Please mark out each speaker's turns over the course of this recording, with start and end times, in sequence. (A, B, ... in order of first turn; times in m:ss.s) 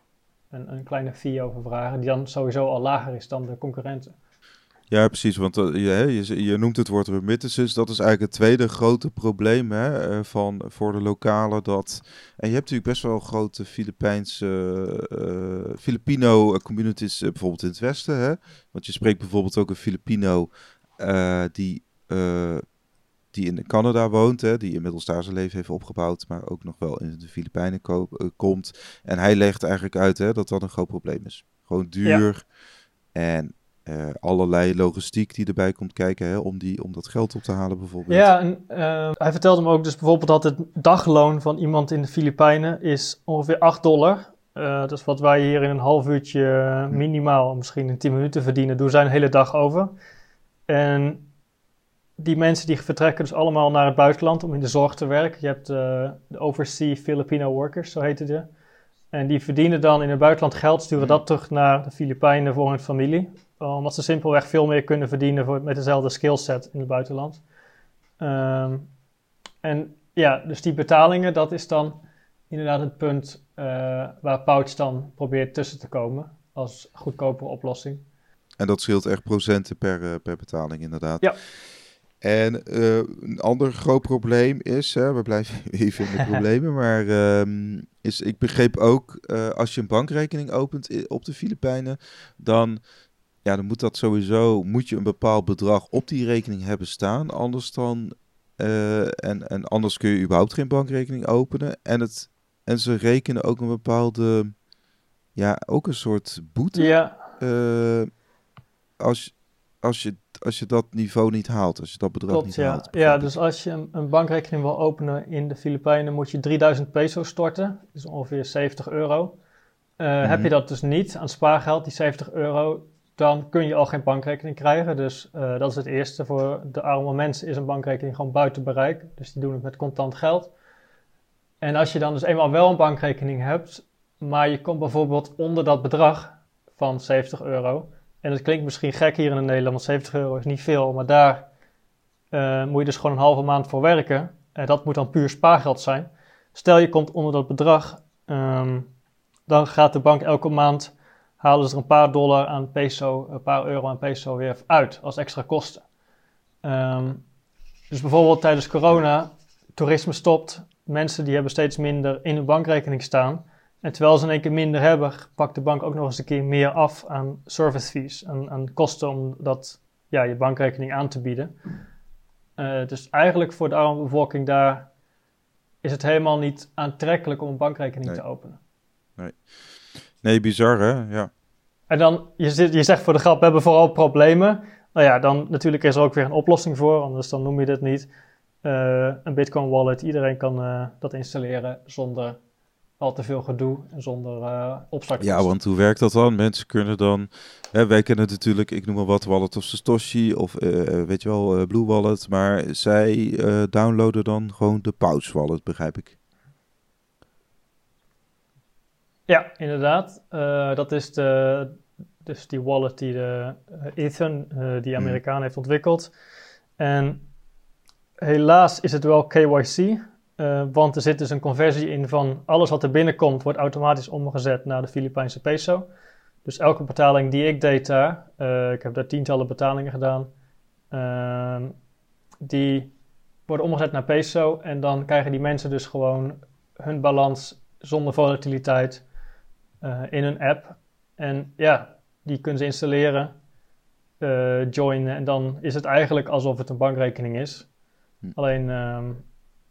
0:00.5-0:04.1 A
0:04.9-0:22.6 B
0:23.3-0:32.4 B
0:33.1-0:38.3 B
0:38.1-0:49.9 A
0:50.7-0:51.3 A
0:52.2-0:58.5 A
0:59.1-1:07.4 A
1:08.2-1:08.9 A
1:09.6-1:18.0 A
1:18.6-1:32.8 B
1:33.4-1:44.6 B
1:45.3-1:48.1 B
1:46.7-1:47.2 A
1:49.0-1:53.3 B
1:52.3-1:59.4 A
2:00.0-2:10.5 A
2:00.2-2:00.5 B
2:11.6-2:21.5 A
2:22.3-2:28.9 A
2:29.5-2:35.8 A
2:36.6-2:37.2 A
2:37.9-2:51.6 A
2:52.6-2:54.9 A
2:55.8-2:58.6 A
2:59.2-3:01.3 B
3:01.9-3:08.1 A
3:08.6-3:12.4 A
3:13.0-3:15.5 A
3:15.2-3:26.2 B
3:29.3-3:36.1 A
3:36.8-3:37.3 A
3:38.2-3:45.9 A
3:46.4-3:50.3 A
3:50.9-3:51.7 A
3:52.4-3:52.9 A
3:53.5-3:59.0 A
3:59.8-4:03.3 A
4:04.2-4:07.7 A
4:08.3-4:09.2 A